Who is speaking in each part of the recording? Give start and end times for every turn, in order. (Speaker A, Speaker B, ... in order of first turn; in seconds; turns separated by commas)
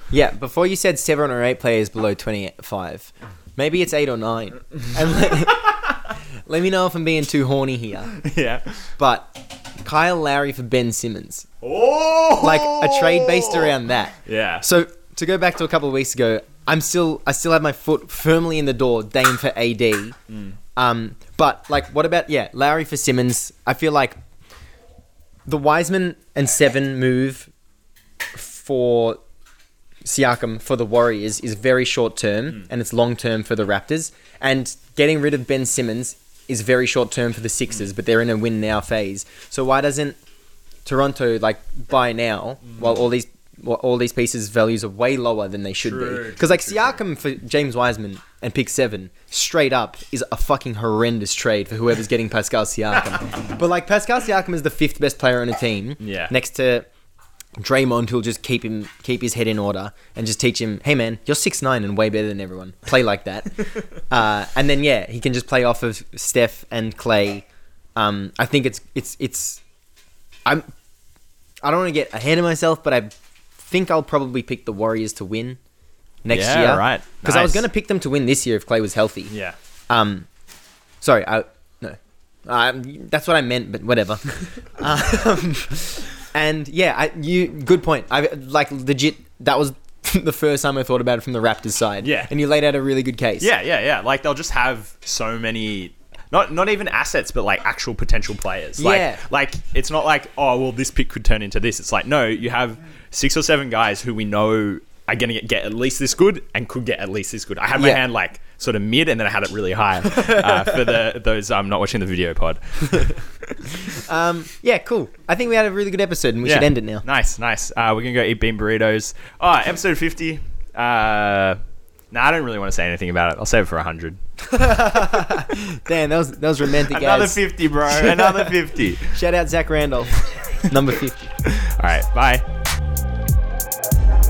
Speaker A: 0.1-5.8, Speaker A: 6.5-8.2, Speaker B: 8.2-8.8, Speaker A: 9.0-11.5, Speaker B: 11.6-13.7, Speaker A: 12.4-20.2, Speaker B: 14.2-14.6, Speaker B: 20.3-20.6, Speaker A: 20.8-24.2, Speaker A: 25.5-27.5, Speaker A: 28.3-29.2, Speaker A: 30.0-40.2, Speaker A: 40.9-56.9, Speaker B: 42.7-43.0, Speaker B: 45.8-47.0, Speaker B: 56.0-56.3, Speaker A: 57.6-69.6, Speaker A: 71.6-75.6, Speaker A: 76.2-79.3, Speaker B: 76.3-77.7, Speaker B: 79.3-79.6, Speaker A: 79.9-80.3, Speaker A: 81.0-93.5, Speaker B: 92.0-92.3, Speaker B: 93.4-113.7, Speaker A: 98.8-99.2, Speaker A: 107.8-108.0, Speaker A: 110.1-110.8, Speaker A: 113.8-117.0, Speaker B: 116.4-121.6, Speaker B: 122.1-124.2, Speaker A: 124.4-131.3, Speaker B: 126.8-129.2, Speaker B: 131.4-132.5